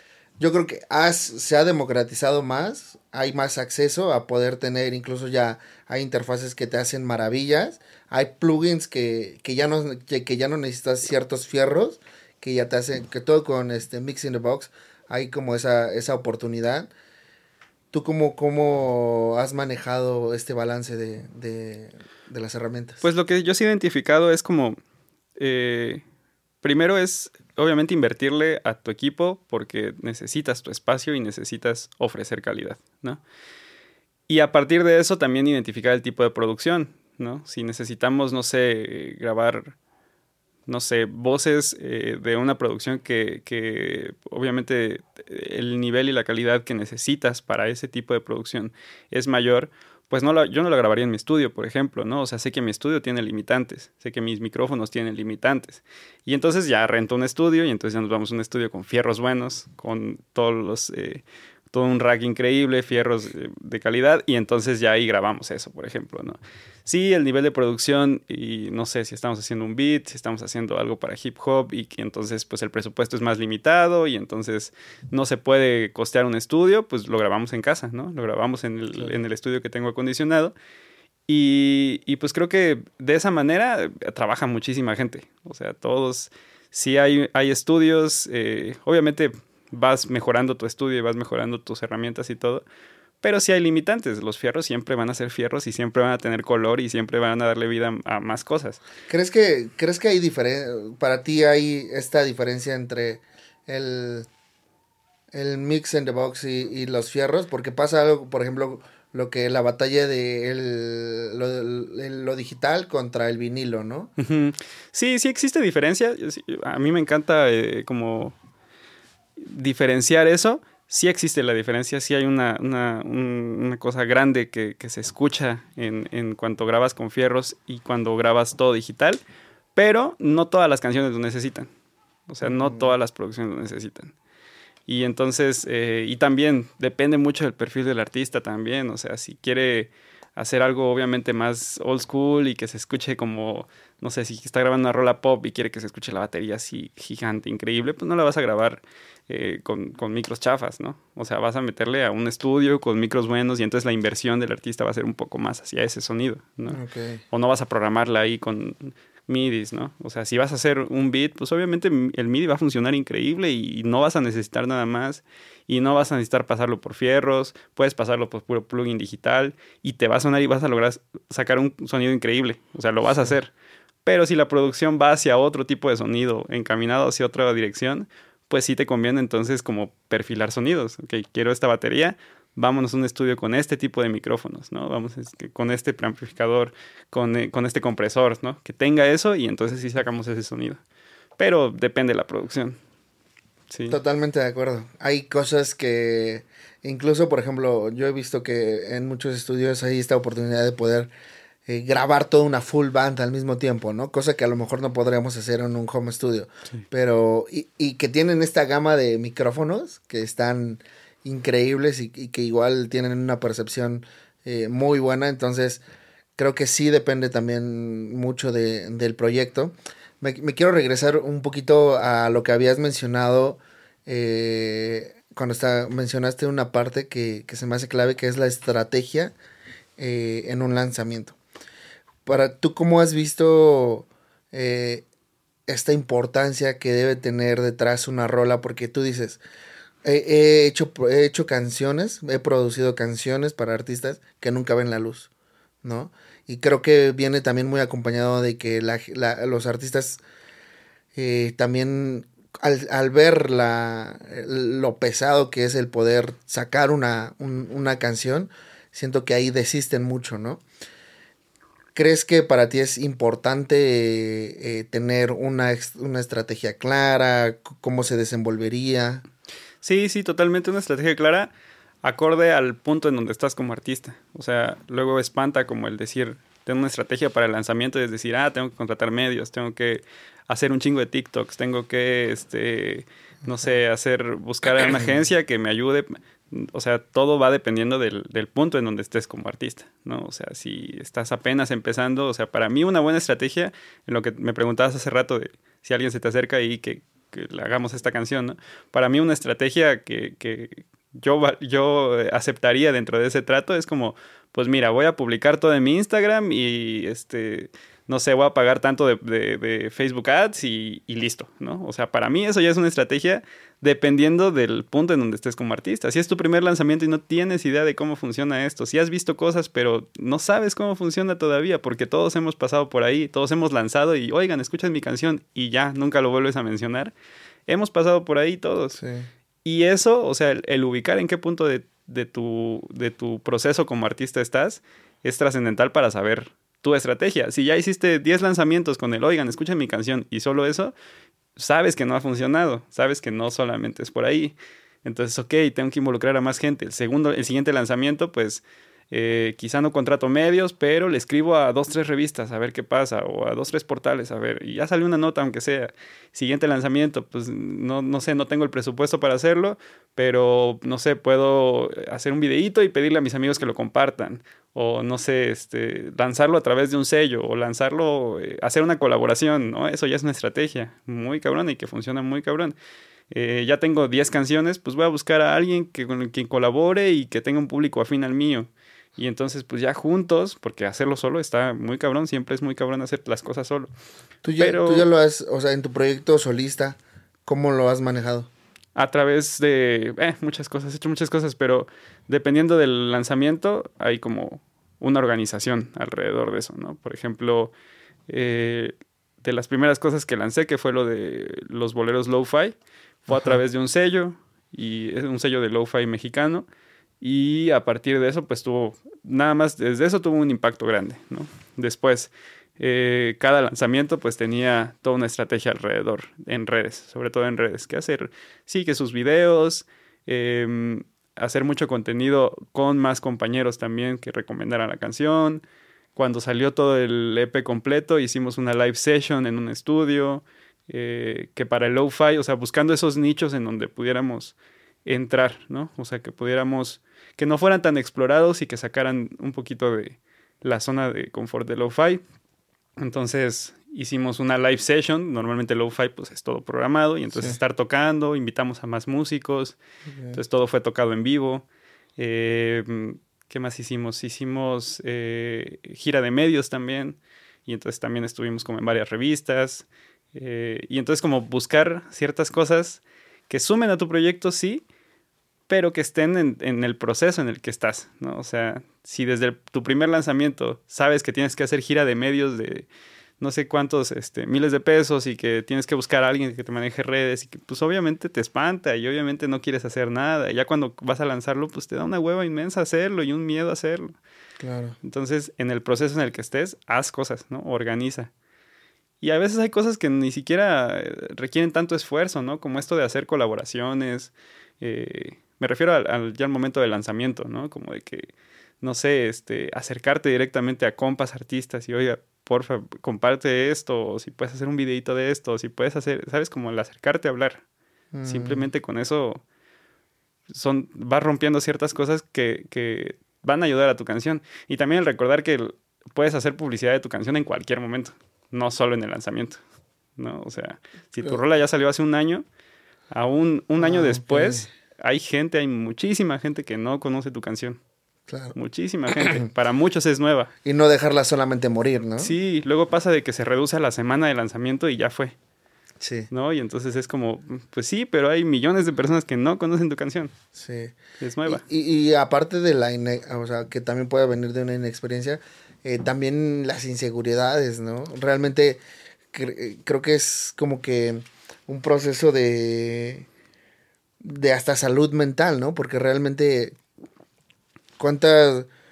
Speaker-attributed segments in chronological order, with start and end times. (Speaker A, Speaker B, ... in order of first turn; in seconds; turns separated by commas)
Speaker A: 0.4-16.9, Speaker A: 17.9-23.1, Speaker B: 23.0-24.8, Speaker B: 25.4-26.0, Speaker B: 26.6-33.2, Speaker B: 34.3-39.8, Speaker B: 40.7-80.5, Speaker A: 79.0-79.2, Speaker B: 81.3-92.6, Speaker B: 93.2-98.8, Speaker A: 99.1-104.3, Speaker A: 105.3-114.1, Speaker B: 114.2-118.4, Speaker B: 119.4-129.2, Speaker B: 129.8-131.7, Speaker B: 132.3-134.1, Speaker A: 132.4-132.9, Speaker B: 134.9-156.8, Speaker A: 156.7-157.2, Speaker B: 157.3-173.5, Speaker B: 174.1-190.8, Speaker B: 191.4-192.8, Speaker B: 193.7-193.9, Speaker A: 193.9-201.1, Speaker A: 201.7-215.8, Speaker A: 216.4-229.3, Speaker A: 230.0-231.4, Speaker A: 232.3-235.1, Speaker A: 235.7-239.4, Speaker A: 240.0-245.3, Speaker A: 245.8-250.2, Speaker A: 251.1-260.6, Speaker A: 261.9-269.2, Speaker B: 269.8-327.1, Speaker B: 327.7-329.0, Speaker A: 329.0-329.3, Speaker B: 329.6-340.9, Speaker B: 341.6-372.8, Speaker B: 373.3-383.9, Speaker A: 384.4-388.5, Speaker B: 384.6-385.1, Speaker B: 388.9-397.7, Speaker B: 398.3-406.7, Speaker B: 407.2-425.6, Speaker B: 426.2-442.2, Speaker B: 443.0-449.8, Speaker A: 450.1-450.4, Speaker B: 450.3-451.6, Speaker B: 452.2-464.9, Speaker B: 465.7-472.9, Speaker B: 473.4-484.1, Speaker A: 484.6-484.9, Speaker B: 485.0-488.3, Speaker B: 489.2-507.6, Speaker A: 508.1-508.7, Speaker B: 508.3-509.4, Speaker B: 510.5-519.6, Speaker B: 520.2-522.4, Speaker B: 523.1-527.8, Speaker A: 523.8-524.7, Speaker A: 528.3-528.5, Speaker B: 528.5-530.5, Speaker A: 529.1-529.5, Speaker A: 530.6-532.4, Speaker B: 532.2-535.4, Speaker A: 536.0-536.3, Speaker B: 536.3-540.3, Speaker A: 540.5-548.8, Speaker B: 541.2-541.6, Speaker A: 549.3-553.3, Speaker A: 554.2-556.8, Speaker A: 558.0-558.7